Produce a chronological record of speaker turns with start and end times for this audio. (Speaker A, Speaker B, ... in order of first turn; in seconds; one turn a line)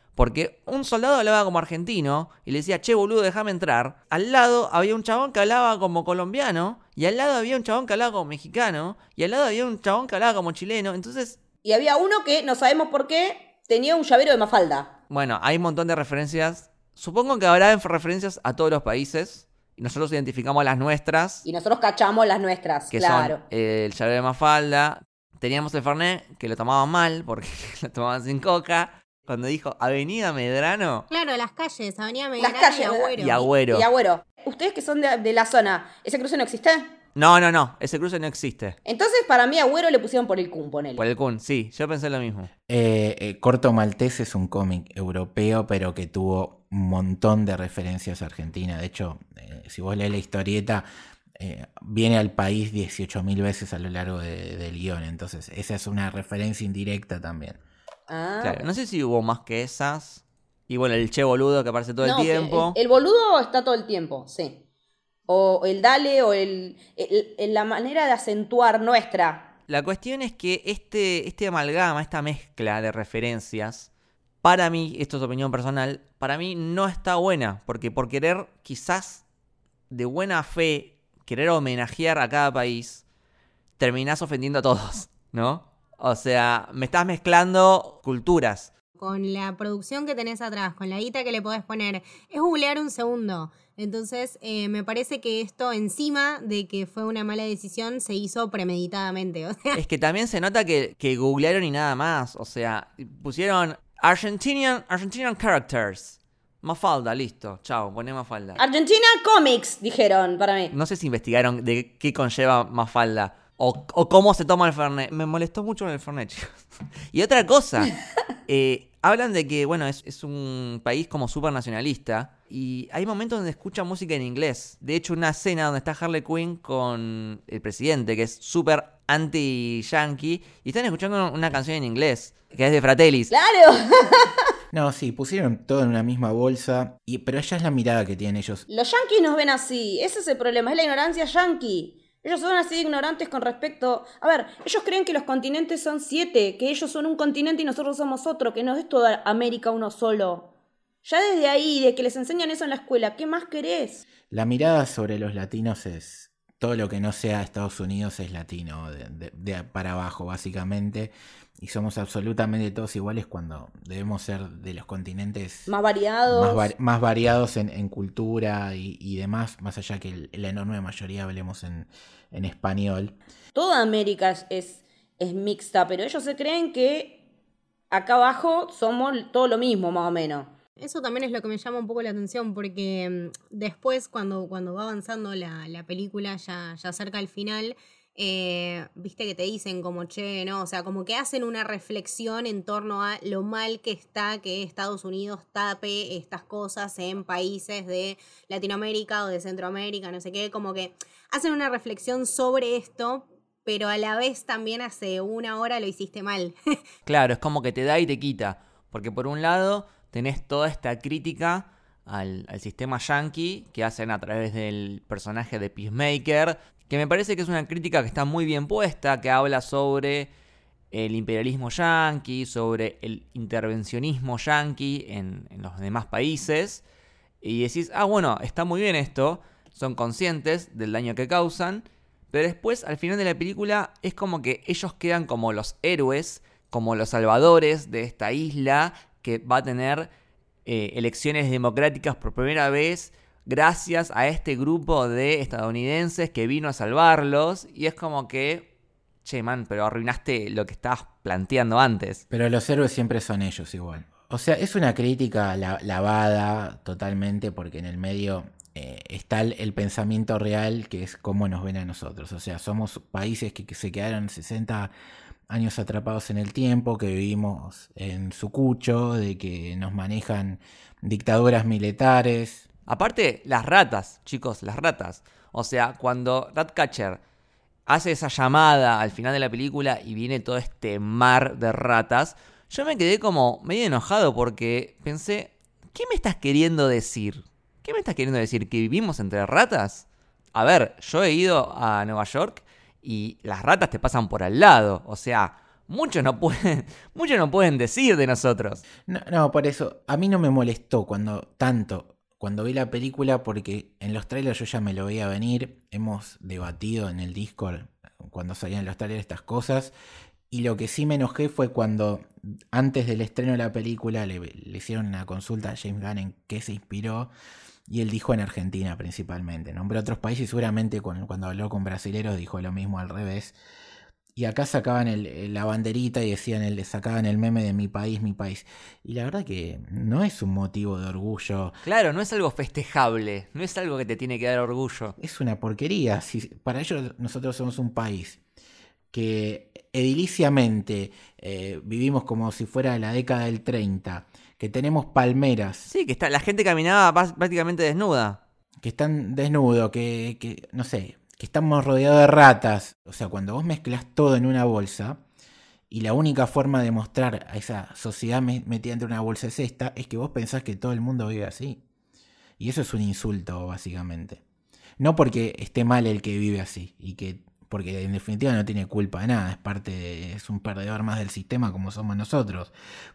Speaker A: 0.1-11.4
Speaker B: 11.6-14.9
Speaker A: 15.1-21.4
Speaker B: 21.4-23.4
Speaker A: 22.9-31.1
Speaker C: 31.1-33.3
Speaker B: 32.4-36.9
Speaker A: 33.2-33.9
Speaker A: 37.1-38.8
Speaker B: 38.8-41.0
Speaker A: 41.0-42.5
Speaker D: 42.7-50.9
Speaker D: 51.4-57.6
Speaker B: 58.1-58.6
Speaker A: 58.4-62.8
Speaker B: 62.0-64.6
Speaker B: 65.3-69.5
Speaker A: 69.7-73.9
Speaker A: 74.4-79.2
Speaker A: 79.9-83.0
Speaker A: 83.8-88.7
Speaker C: 89.0-99.8
Speaker A: 99.7-108.6
Speaker B: 108.6-110.7
Speaker A: 110.7-117.9
Speaker A: 118.5-133.3
Speaker B: 133.3-134.5
Speaker D: 134.7-138.7
Speaker B: 138.7-150.5
Speaker B: 151.0-154.0
Speaker D: 154.3-165.7
Speaker B: 165.7-166.7
Speaker D: 166.3-173.1
Speaker B: 173.5-177.2
Speaker B: 177.9-180.5
Speaker C: 180.8-206.5
Speaker A: 207.1-220.3
Speaker A: 220.9-226.8
Speaker A: 227.4-240.1
Speaker A: 240.6-248.7
Speaker A: 249.2-252.2
Speaker D: 252.3-264.9
Speaker D: 265.5-272.6
Speaker A: 272.9-277.2
Speaker A: 277.9-298.8
Speaker D: 299.1-309.9
Speaker D: 310.5-317.3
Speaker D: 317.9-323.5
Speaker D: 324.4-331.7
Speaker A: 331.8-335.1
Speaker D: 335.2-338.4
Speaker D: 339.1-345.9
Speaker A: 345.9-348.4
Speaker D: 348.8-355.2
Speaker D: 355.9-361.8
Speaker D: 362.6-364.4
Speaker D: 365.0-372.7